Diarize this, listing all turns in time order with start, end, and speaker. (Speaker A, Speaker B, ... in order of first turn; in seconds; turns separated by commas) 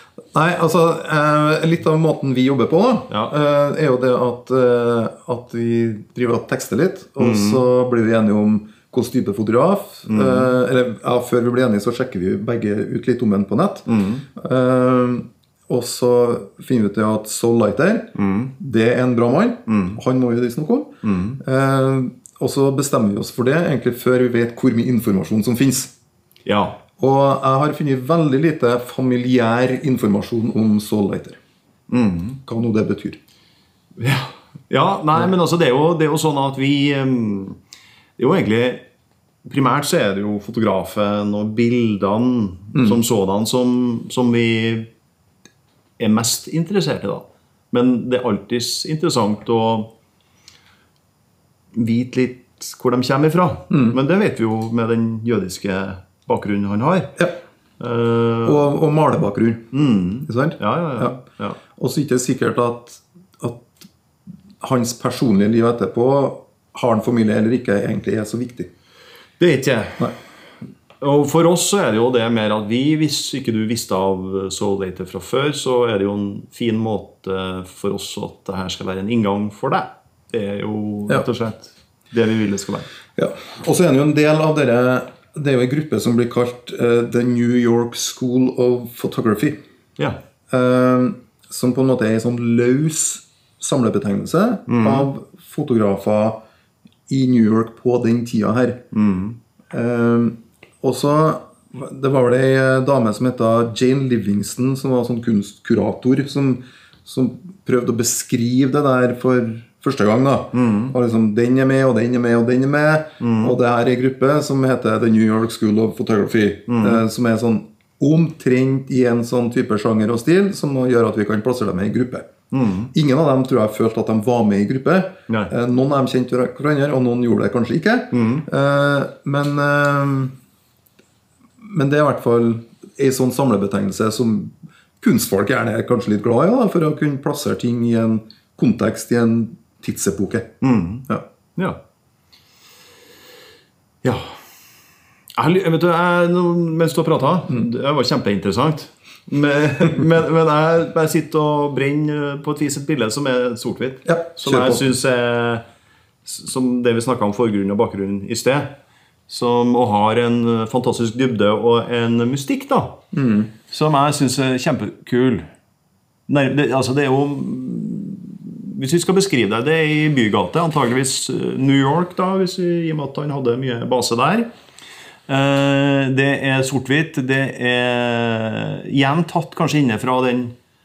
Speaker A: 0.3-25.9, Speaker B: 7.2-7.6, Speaker B: 10.1-10.5, Speaker B: 13.9-14.2, Speaker B: 18.1-18.5, Speaker B: 19.7-20.0, Speaker B: 21.0-21.4, Speaker B: 26.4-26.8, Speaker A: 27.0-31.4, Speaker B: 31.9-32.4, Speaker A: 32.4-33.2, Speaker B: 34.0-37.6, Speaker B: 38.2-38.8, Speaker B: 39.4-44.9, Speaker A: 42.7-43.0, Speaker B: 46.0-49.9, Speaker B: 51.7-57.2, Speaker A: 53.7-54.0, Speaker B: 57.8-58.6, Speaker A: 58.4-59.7, Speaker B: 59.7-61.6, Speaker A: 60.2-61.2, Speaker A: 61.7-63.8, Speaker A: 64.6-68.7, Speaker B: 69.4-70.1, Speaker B: 71.0-82.9, Speaker A: 83.2-89.6, Speaker A: 90.5-96.4, Speaker B: 94.7-95.1, Speaker A: 97.1-98.8, Speaker B: 98.9-99.4, Speaker A: 99.7-122.3, Speaker B: 110.5-110.9, Speaker B: 113.2-113.5, Speaker B: 116.7-117.0, Speaker B: 122.5-122.9, Speaker A: 122.9-130.3, Speaker B: 128.1-128.4, Speaker A: 131.6-140.5, Speaker B: 140.6-141.8, Speaker B: 144.0-144.3, Speaker B: 145.4-155.6, Speaker A: 154.0-154.9, Speaker B: 156.2-158.7, Speaker B: 159.3-163.0, Speaker A: 163.1-163.5, Speaker B: 163.7-165.5, Speaker B: 166.3-174.5, Speaker B: 175.3-180.5